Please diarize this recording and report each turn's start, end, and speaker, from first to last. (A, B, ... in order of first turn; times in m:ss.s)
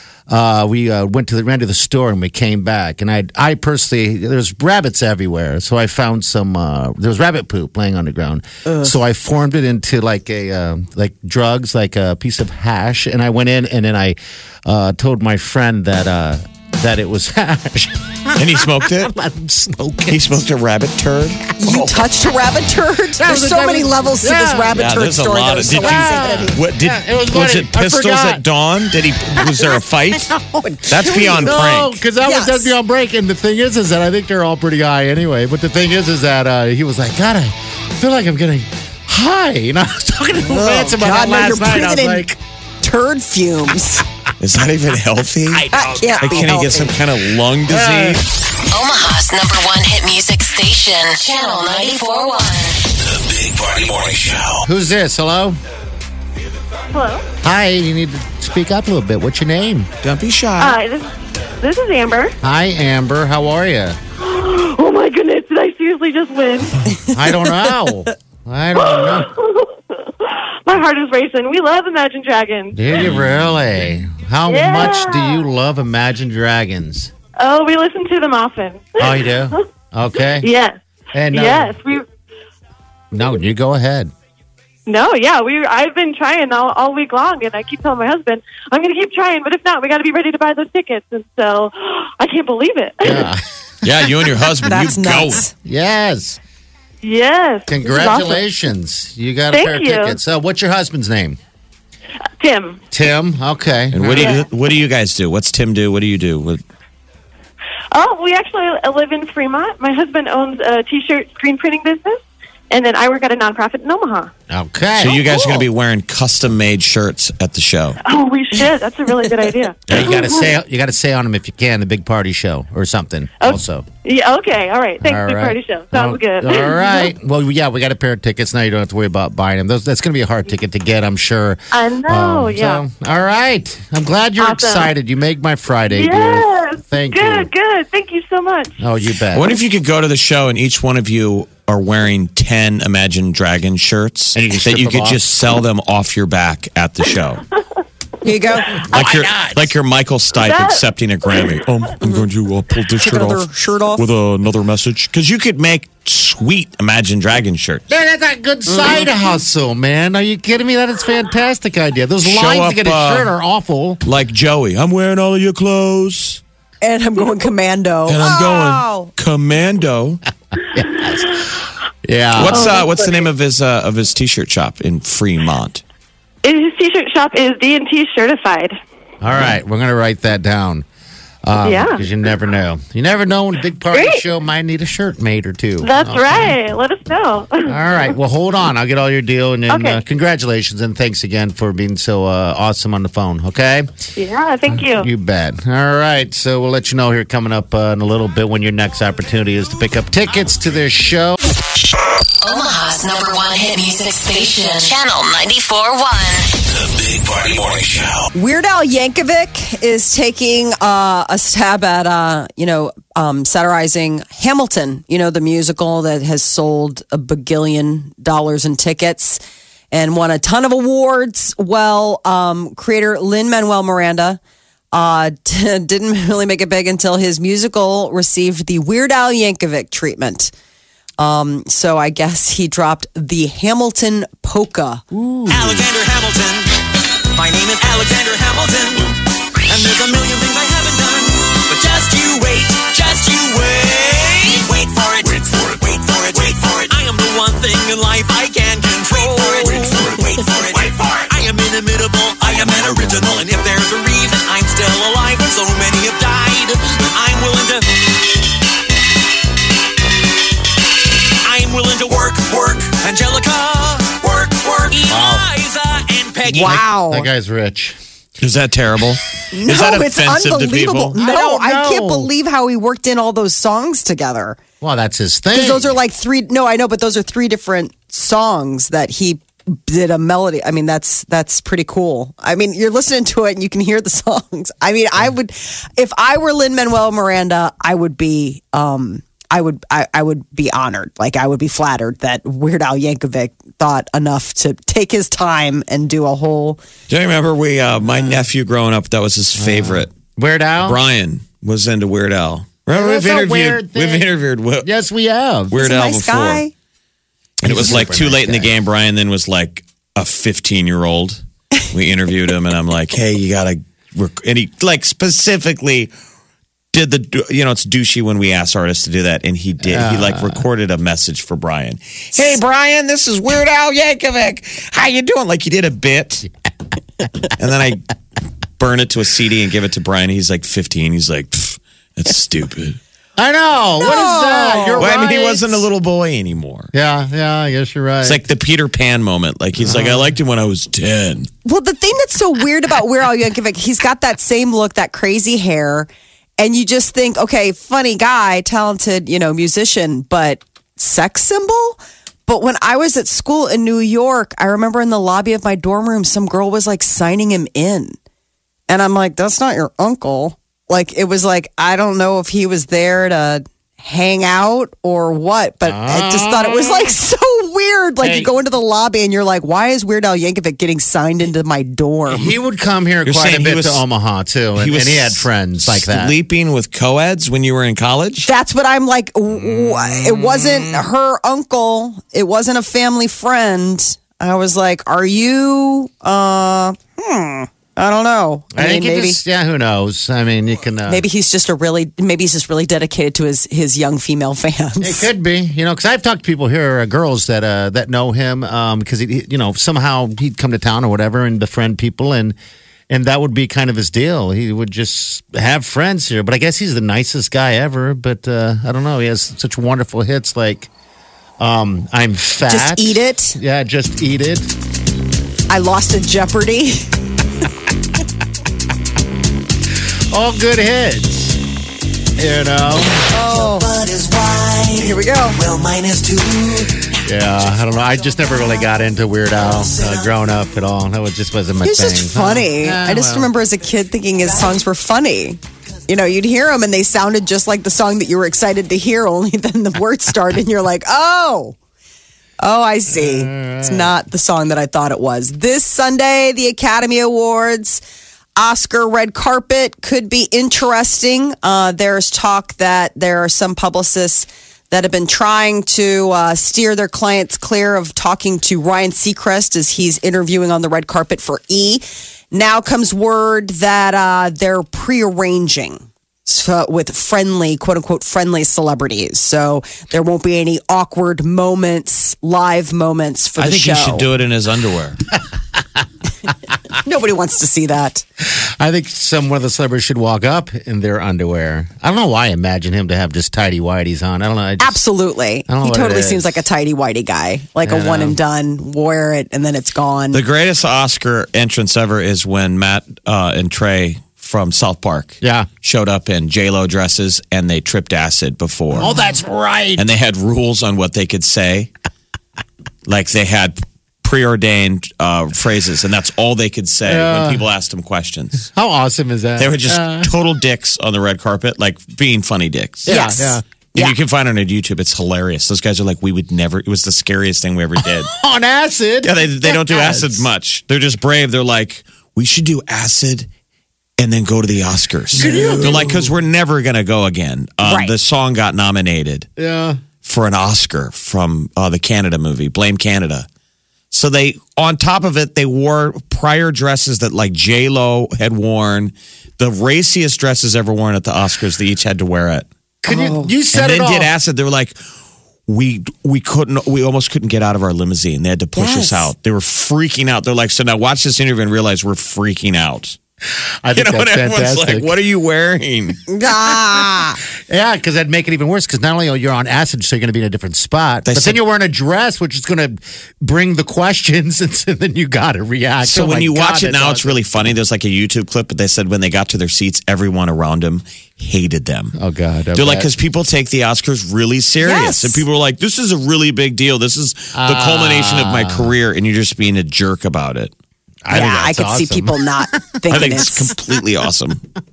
0:00.3-0:20.3 A
0:08.6-0:08.9 B
0:18.4-0:19.1 C
0:20.1-0:22.0 C
0:21.6-0:26.6 B
0:23.2-0:24.8 A
0:24.7-0:30.3 C
0:25.7-0:28.4 A
0:29.3-0:42.4 A
0:30.6-0:31.6 B
0:30.9-0:32.0 C
0:32.2-0:32.7 B
0:40.4-0:44.0 B
0:44.4-0:48.2 C
0:45.5-0:46.7 A
0:45.7-0:46.9 B
0:47.7-0:48.2 A
0:48.7-0:52.8 D
0:53.0-0:54.6 E
0:54.6-0:55.6 A
0:56.9-0:57.2 F
0:57.4-0:59.9 A
1:00.0-1:00.8 C
1:00.6-1:02.3 F
1:02.4-1:04.0 A
1:04.2-1:06.8 F
1:07.0-1:09.3 A
1:08.8-1:13.1 F
1:12.7-1:17.1 A
1:13.0-1:13.3 C
1:14.5-1:15.4 F
1:17.4-1:19.6 F
1:19.0-1:20.5 A
1:20.4-1:20.8 F
1:21.1-1:21.8 A
1:21.3-1:22.0 F
1:23.1-1:24.1 A
1:24.9-1:33.3 F
1:33.0-1:33.8 A
1:33.8-1:35.4 C
1:34.6-1:35.5 B
1:35.6-1:36.4 A
1:37.0-1:38.4 F
1:37.7-1:41.4 A
1:39.5-1:40.2 F
1:42.4-1:42.8 F
1:42.9-1:44.4 A
1:43.9-1:46.6 C
1:44.2-1:44.4 F
1:47.9-1:54.3 F
1:54.5-1:55.2 A
1:54.9-1:58.0 C
1:55.2-1:55.6 F
1:58.0-2:00.5 F
1:59.9-2:03.8 A
2:03.4-2:07.1 F
2:05.0-2:17.5 A
2:11.7-2:12.8 F
2:14.4-2:14.9 F
2:15.9-2:18.8 F
2:18.8-2:19.5 A
2:19.3-2:27.4 C
2:24.3-2:25.3 A
2:28.2-2:28.8 B
2:28.6-2:29.1 F
2:28.9-2:29.7 A
2:28.9-2:37.8 C
2:30.3-2:31.6 F
2:32.0-2:32.3 B
2:33.0-2:34.1 B
2:37.9-2:44.0 A
2:38.7-2:39.0 B
2:42.2-2:43.3 C
2:44.0-2:46.4 C
2:46.8-2:49.1 B
2:48.1-2:50.2 C
2:50.7-2:51.5 A
2:51.0-2:51.5 F
2:52.0-2:52.8 A
2:52.3-2:55.8 C
2:52.5-2:53.3 F
2:56.4-2:58.8 F
2:59.2-3:00.8 A
3:01.4-3:06.6 A
3:01.6-3:02.0 F
3:03.9-3:04.2 F
3:05.8-3:07.7 F
3:07.6-3:13.9 A
3:09.7-3:10.0 F
3:14.2-3:15.1 F
3:14.7-3:21.4 A
3:22.4-3:26.5 D
3:26.7-3:28.3 E
3:28.3-3:39.4 B
3:39.9-3:44.4 B
3:44.9-3:50.5 B
3:51.2-3:55.0 B
3:55.1-3:55.8 A
3:55.5-3:56.7 G
3:55.5-3:55.9 C
3:57.3-3:59.2 G
3:59.7-4:17.8 G
4:05.4-4:05.8 E
4:06.9-4:08.9 C
4:09.7-4:10.2 E
4:11.3-4:14.3 C
4:14.9-4:15.1 C
4:21.4-4:26.7 G
4:25.1-4:25.4 A
4:26.5-4:27.3 B
4:26.5-4:28.0 A
4:28.4-4:31.2 C
4:29.5-4:34.6 B
4:31.2-4:32.3 A
4:34.8-4:36.0 A
4:35.5-4:56.8 B
4:57.1-5:00.1 C
4:58.1-4:58.4 A
4:59.6-5:01.0 A
5:00.8-5:04.9 C
5:02.9-5:04.3 A
5:04.8-5:05.7 A
5:05.7-5:06.6 C
5:05.7-5:06.7 B
5:07.6-5:08.7 A
5:07.6-5:16.1 C
5:16.9-5:26.5 C
5:19.8-5:20.6 A
5:27.6-5:28.0 C
5:28.8-5:33.0 C
5:33.4-5:35.8 A
5:34.0-5:35.4 B
5:35.0-5:36.9 C
5:36.9-5:38.4 A
5:38.2-5:41.5 C
5:39.8-5:40.2 A
5:41.6-5:58.2 B
5:58.9-6:12.5 B
6:05.8-6:07.1 A
6:08.2-6:08.5 A
6:12.3-6:16.3 A
6:13.2-6:14.0 C
6:14.8-6:18.5 C
6:18.4-6:29.4 B
6:19.6-6:20.6 A
6:28.7-6:31.2 A
6:31.1-6:35.3 B
6:35.0-6:42.6 A
6:43.1-6:50.9 A
6:51.6-6:54.7 A
6:52.7-6:53.6 B
6:55.7-6:57.1 B
7:00.3-7:01.6 A
7:02.4-7:03.4 A
7:03.2-7:04.0 B
7:04.2-7:04.7 G
7:04.9-7:05.6 B
7:05.8-7:06.6 G
7:07.0-7:13.5 A
7:11.8-7:21.8 B
7:22.6-7:28.0 B
7:23.1-7:24.1 A
7:28.6-7:54.3 B
7:53.6-7:55.2 C
7:56.9-7:58.2 B
7:58.4-8:05.0 A
8:04.8-8:10.4 B
8:05.7-8:06.6 A
8:07.8-8:08.4 A
8:10.3-8:19.1 C
8:15.4-8:15.7 A
8:19.0-8:20.1 A
8:20.0-8:21.9 C
8:23.0-8:28.7 C
8:27.0-8:27.6 A
8:28.7-8:30.3 A
8:29.6-8:33.2 C
8:33.0-8:33.6 A
8:33.1-8:34.2 B
8:33.9-8:38.3 C
8:38.0-8:40.4 A
8:39.2-8:43.5 C
8:44.2-8:49.5 C
8:45.3-8:46.3 A
8:47.8-8:48.1 B
8:49.6-8:50.0 A
8:50.2-8:53.5 C
8:54.1-9:02.7 C
9:03.0-9:04.3 A
9:03.1-9:03.5 B
9:03.7-9:05.0 C
9:05.7-9:13.2 C
9:08.8-9:09.3 B
9:13.8-9:15.1 A
9:13.9-9:16.3 C
9:16.3-9:17.4 B
9:17.7-9:27.7 A
9:21.2-9:21.6 C
9:26.0-9:32.1 C
9:32.1-9:33.1 A
9:32.7-9:40.7 C
9:34.8-9:35.4 B
9:37.5-9:38.9 A
9:41.2-9:43.0 A
9:41.3-9:43.7 B
9:43.1-9:44.6 C